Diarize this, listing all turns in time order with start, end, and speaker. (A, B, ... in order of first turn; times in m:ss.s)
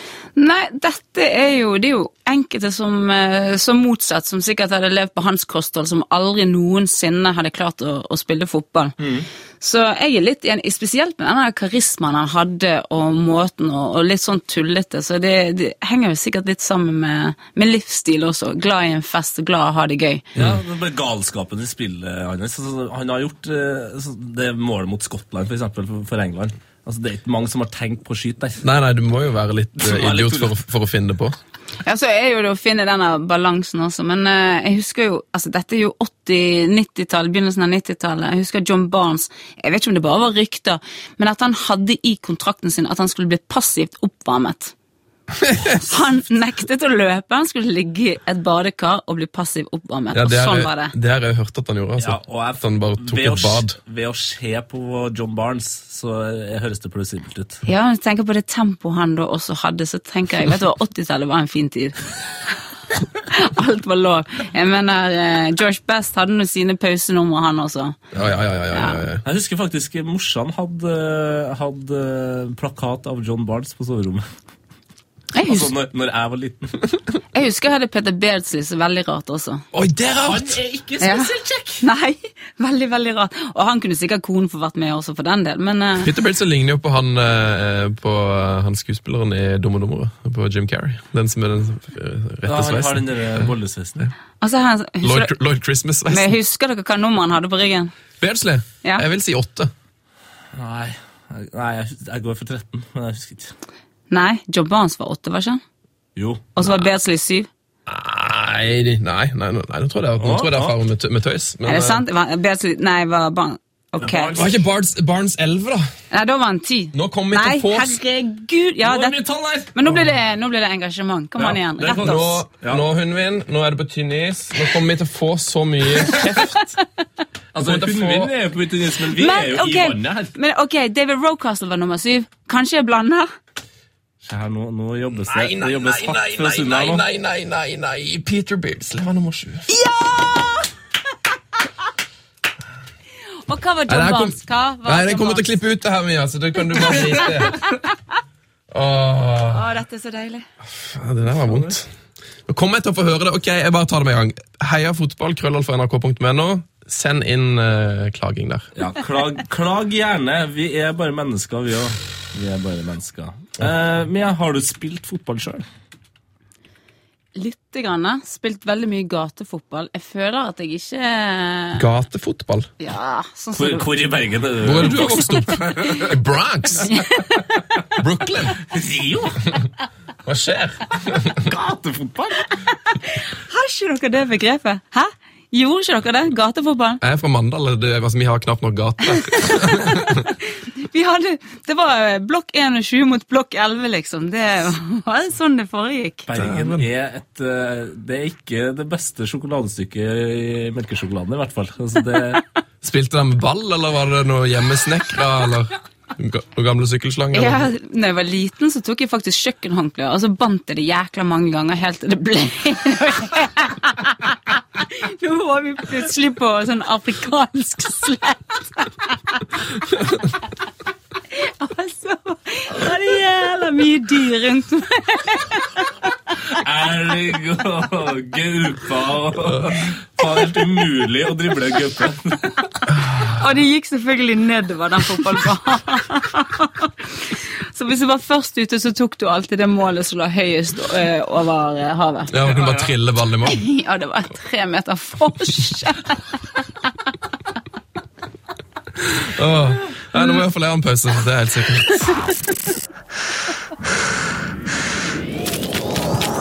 0:00.4-0:09.0 A
0:09.0-0:09.2 B
0:09.6-0:20.2 A
0:20.4-0:28.6 B
0:28.6-0:31.4 C
0:29.8-0:30.5 B
0:31.8-0:44.7 A
0:45.4-0:45.8 C
0:45.8-0:50.9 A
0:50.1-0:53.8 C
0:52.0-0:57.6 B
0:57.6-1:02.0 A
1:03.2-1:08.0 A
1:08.1-1:09.2 C
1:08.7-1:09.0 A
1:09.2-1:14.2 B
1:15.3-1:15.7 A
1:15.4-1:16.9 B
1:17.3-1:19.6 A
1:19.7-1:20.6 C
1:20.2-1:21.8 B
1:21.0-1:26.1 A
1:26.0-1:33.5 C
1:32.4-1:34.0 B
1:34.4-1:35.3 A
1:35.0-1:36.3 C
1:36.1-1:37.9 A
1:38.2-1:39.7 C
1:40.5-1:43.5 B
1:44.1-1:45.6 A
1:46.2-1:46.5 B
1:46.6-1:47.5 A
1:47.9-1:52.0 C
1:50.2-1:50.8 B
1:51.6-1:54.4 A
1:54.0-1:54.5 B
1:54.3-1:55.9 C
1:56.1-1:59.2 A
1:56.9-1:58.0 C
1:58.8-1:59.7 B
1:59.7-2:02.4 A
2:01.4-2:02.8 B
2:01.9-2:06.7 C
2:07.5-2:10.3 B
2:07.6-2:08.3 C
2:09.1-2:13.3 A
2:14.2-2:17.0 B
2:15.3-2:19.7 C
2:19.7-2:20.7 A
2:23.4-2:25.4 A
2:23.9-2:27.6 C
2:28.7-2:29.7 C
2:29.5-2:30.5 A
2:30.7-2:31.9 C
2:31.4-2:31.7 B
2:32.5-2:38.7 C
2:38.8-2:45.6 B
2:47.3-2:51.8 A
2:51.8-2:52.7 C
2:52.8-2:53.9 A
2:53.6-2:56.1 B
2:54.6-2:57.0 C
2:56.9-2:57.6 A
2:58.0-2:58.6 C
2:58.7-2:59.5 B
3:00.2-3:01.5 C
3:01.4-3:02.4 B
3:03.0-3:07.0 A
3:07.0-3:10.3 C
3:09.5-3:10.2 A
3:10.8-3:16.3 A
3:16.3-3:22.4 B
3:16.4-3:16.8 C
3:22.8-3:27.7 C
3:27.3-3:39.5 A
3:41.3-3:45.9 A
3:46.5-3:52.6 B
3:53.2-3:56.9 A
3:57.6-4:02.3 A
4:02.3-4:03.6 C
4:02.4-4:02.9 B
4:03.4-4:06.2 A
4:09.0-4:12.2 C